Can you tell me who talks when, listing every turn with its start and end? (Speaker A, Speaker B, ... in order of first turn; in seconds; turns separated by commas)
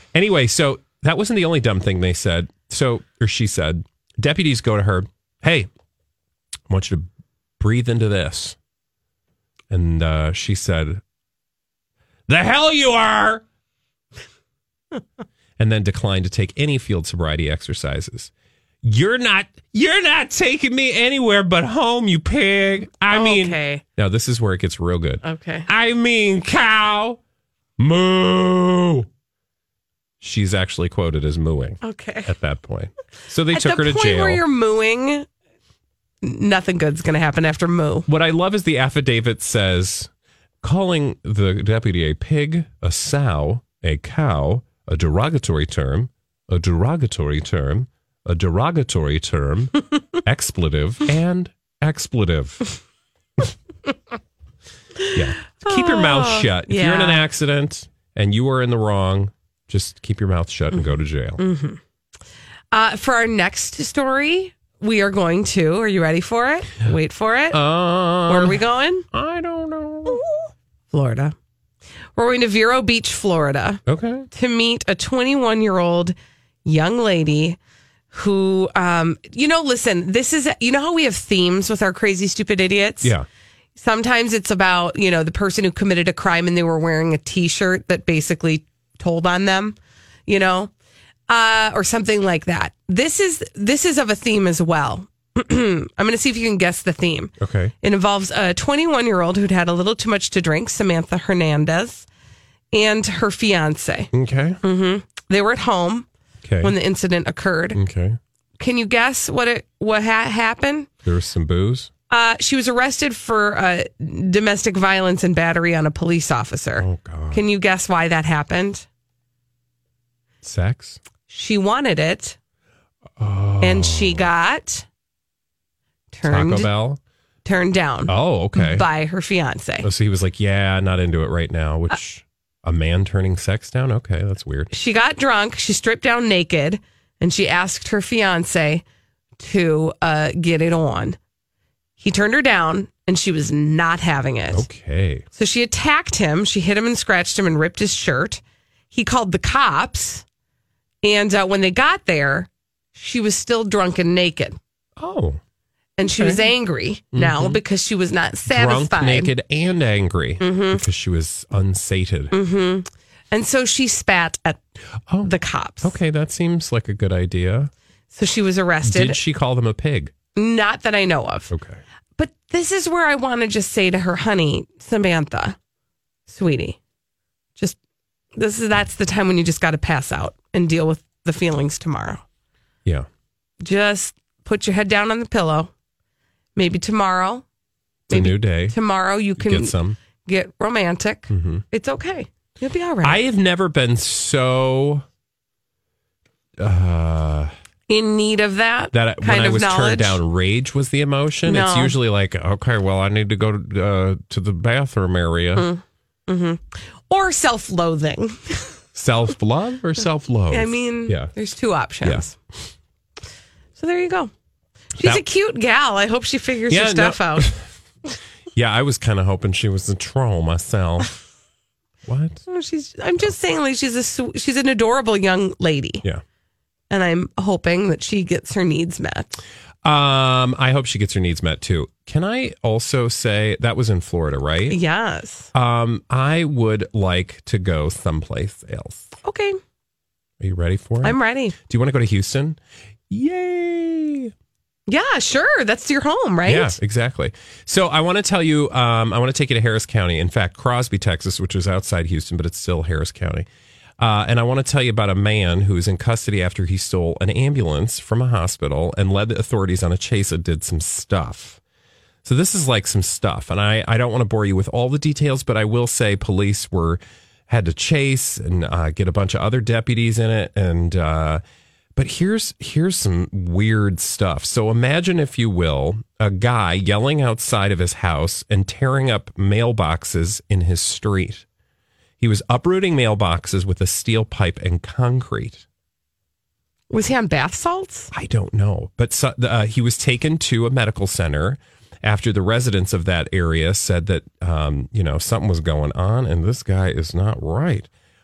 Speaker A: 0.1-5.7, Speaker A: 6.7-7.1, Speaker A: 7.6-8.6, Speaker A: 9.7-11.0, Speaker A: 12.3-13.4, Speaker A: 15.6-18.3, Speaker A: 18.8-27.2, Speaker B: 23.1-23.8, Speaker B: 25.2-25.7, Speaker A: 27.8-29.1, Speaker A: 30.2-34.4, Speaker B: 31.8-32.3, Speaker B: 33.5-35.3, Speaker B: 36.2-38.1, Speaker A: 38.1-40.1, Speaker A: 40.6-52.7, Speaker B: 55.0-57.2, Speaker A: 55.1-61.4, Speaker B: 61.4-61.8, Speaker B: 62.7-67.6, Speaker A: 67.5-70.2, Speaker B: 68.2-69.0, Speaker B: 70.9-71.3, Speaker B: 72.2-77.6, Speaker A: 73.8-74.3, Speaker B: 78.1-83.1, Speaker B: 83.8-89.8, Speaker B: 90.3-90.7, Speaker B: 91.3-102.0, Speaker A: 97.4-97.7, Speaker B: 102.7-104.1, Speaker A: 104.1-104.6, Speaker B: 104.6-106.1, Speaker A: 106.4-106.7, Speaker B: 106.6-107.8, Speaker A: 107.7-108.2, Speaker B: 108.6-110.9, Speaker A: 111.0-111.9, Speaker B: 112.1-118.8, Speaker A: 116.8-117.4, Speaker A: 120.4-121.0, Speaker B: 121.3-122.3, Speaker A: 123.2-124.3, Speaker B: 123.6-124.8, Speaker B: 126.1-126.7, Speaker A: 126.2-127.0, Speaker B: 127.4-129.9, Speaker A: 128.1-128.9, Speaker A: 129.8-134.7, Speaker B: 134.7-138.8, Speaker B: 139.4-141.2, Speaker B: 142.0-144.7, Speaker A: 144.5-145.2, Speaker B: 145.3-150.2, Speaker B: 151.0-154.6, Speaker A: 155.0-155.4, Speaker B: 156.0-159.3, Speaker A: 156.2-156.5, Speaker A: 157.1-157.6, Speaker A: 158.5-162.3, Speaker B: 160.4-160.8, Speaker B: 162.3-164.6, Speaker A: 165.1-167.7, Speaker B: 165.2-165.9, Speaker B: 168.1-169.2, Speaker A: 168.8-170.1, Speaker B: 170.3-171.5, Speaker A: 171.5-171.8, Speaker B: 172.2-175.6, Speaker B: 176.3-176.8, Speaker B: 178.3-182.2, Speaker B: 183.6-185.7, Speaker B: 186.6-187.4, Speaker A: 188.1-188.8, Speaker B: 188.1-193.2, Speaker A: 189.4-190.0, Speaker A: 191.3-191.6, Speaker A: 193.0-195.0, Speaker A: 196.6-197.5, Speaker B: 197.9-200.2, Speaker A: 198.9-205.7, Speaker B: 201.4-201.9, Speaker B: 205.6-208.7, Speaker A: 208.9-211.3, Speaker B: 210.5-212.3, Speaker A: 212.0-212.7, Speaker B: 213.8-214.3, Speaker B: 215.0-217.5, Speaker A: 215.0-215.2, Speaker A: 216.7-217.7, Speaker A: 218.5-221.1, Speaker A: 222.1-222.4, Speaker B: 222.5-226.0, Speaker B: 226.9-229.4, Speaker A: 229.8-234.8, Speaker B: 234.7-235.5, Speaker A: 235.5-239.1, Speaker B: 239.2-239.6, Speaker A: 240.4-242.6, Speaker B: 241.0-241.5, Speaker A: 243.1-244.3, Speaker B: 244.9-246.8, Speaker A: 246.4-253.4, Speaker A: 254.0-261.6, Speaker A: 262.2-271.4, Speaker A: 271.9-281.4, Speaker A: 282.2-285.6, Speaker B: 286.9-288.1, Speaker A: 288.1-297.9